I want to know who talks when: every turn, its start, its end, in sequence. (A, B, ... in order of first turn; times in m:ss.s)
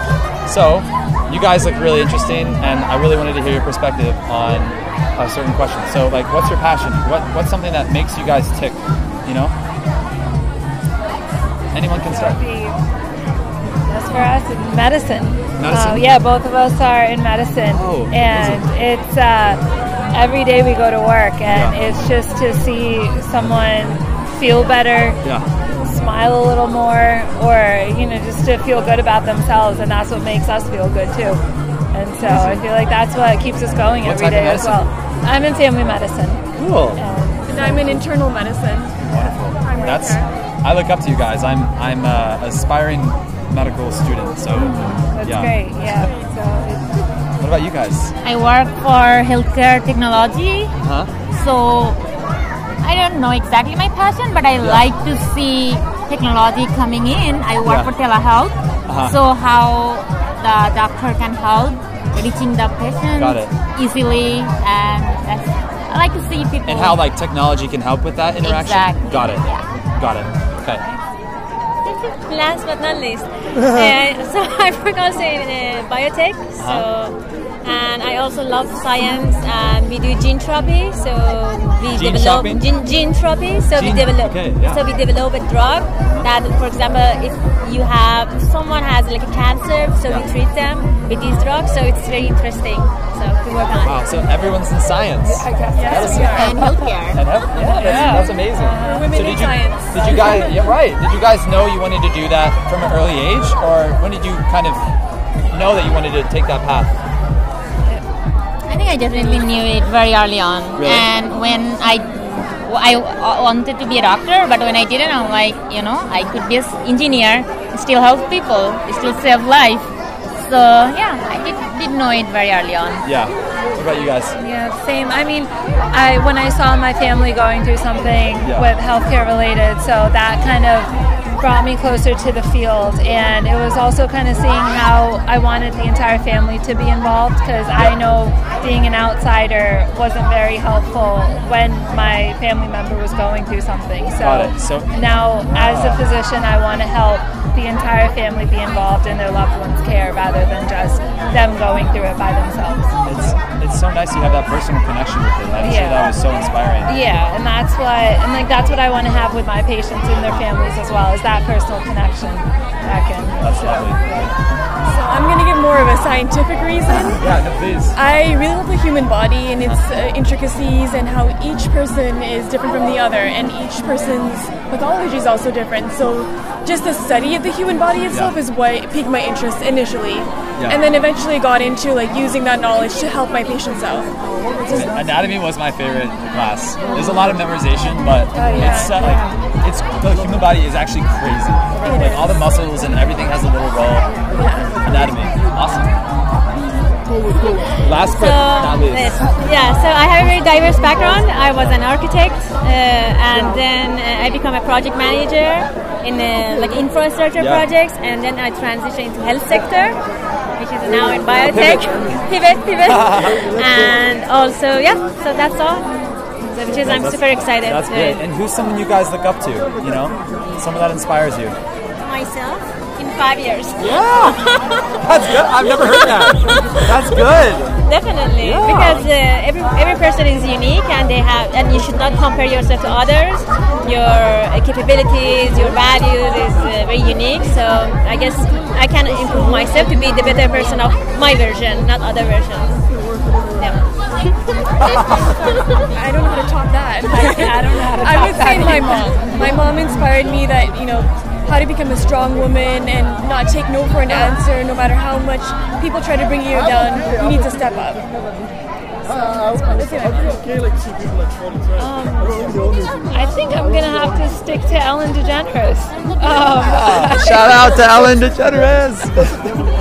0:00.4-0:09.5 A
0:11.7-0:12.4 A
0:12.1-0:12.8 B
0:13.8-0:19.6 B
0:15.6-0:16.1 A
0:17.7-0:18.6 A
0:20.1-0:25.2 B
0:21.5-0:21.8 A
0:25.8-0:31.4 B
0:31.9-0:36.4 B
0:32.2-0:32.7 A
0:34.0-0:34.8 A
0:36.5-0:37.0 A
0:37.0-0:37.6 B
0:37.5-0:39.0 C
0:37.5-0:38.0 A
0:39.0-0:46.1 A
0:39.6-0:40.3 C
0:44.5-0:47.0 B
0:47.4-0:48.1 A
0:48.2-0:50.7 D
0:50.8-0:51.1 A
0:51.3-0:52.0 D
0:52.8-1:07.0 D
0:54.6-0:54.9 A
0:57.6-0:57.9 A
0:58.9-0:59.2 A
1:03.2-1:03.6 A
1:06.6-1:09.4 A
1:08.4-1:09.6 D
1:09.9-1:10.8 A
1:11.9-1:34.0 E
1:16.6-1:16.9 A
1:21.9-1:22.7 A
1:23.7-1:24.8 A
1:33.8-1:36.6 A
1:35.2-1:36.5 B
1:35.7-1:36.9 C
1:36.3-1:37.2 D
1:37.1-1:44.8 A
1:37.5-1:39.1 B
1:38.0-1:38.2 C
1:38.8-1:40.6 C
1:45.5-1:46.9 A
1:48.7-2:03.0 D
1:50.8-1:51.1 A
2:03.0-2:04.4 A
2:04.4-2:32.9 B
2:08.4-2:08.7 A
2:24.2-2:24.9 A
2:25.5-2:26.0 A
2:33.0-2:37.0 A
2:35.6-2:36.2 B
2:36.8-2:44.3 B
2:43.4-2:44.0 A
2:44.8-2:47.3 C
2:47.2-2:48.0 A
2:47.9-3:04.1 C
2:58.1-2:58.4 A
3:00.6-3:00.8 A
3:04.7-3:14.1 A
3:08.4-3:09.1 C
3:08.4-3:09.3 B
3:11.8-3:12.4 C
3:14.3-3:14.8 C
3:14.8-3:15.9 A
3:17.8-3:19.2 A
3:17.9-3:30.0 E
3:21.5-3:21.8 A
3:27.4-3:27.7 A
3:30.6-3:35.9 E
3:31.4-3:32.1 A
3:32.8-3:33.5 A
3:36.5-3:38.2 E
3:36.7-3:41.6 A
3:42.0-3:44.8 E
3:43.8-3:44.4 A
3:45.0-3:47.8 A
3:45.7-3:46.8 E
3:47.8-4:02.8 E
3:48.4-3:49.1 A
4:04.8-4:05.2 A
4:05.9-4:18.1 C
4:07.1-4:09.2 B
4:19.0-4:20.4 C
4:21.7-4:22.6 B
4:23.1-4:27.8 B
4:26.6-4:29.4 A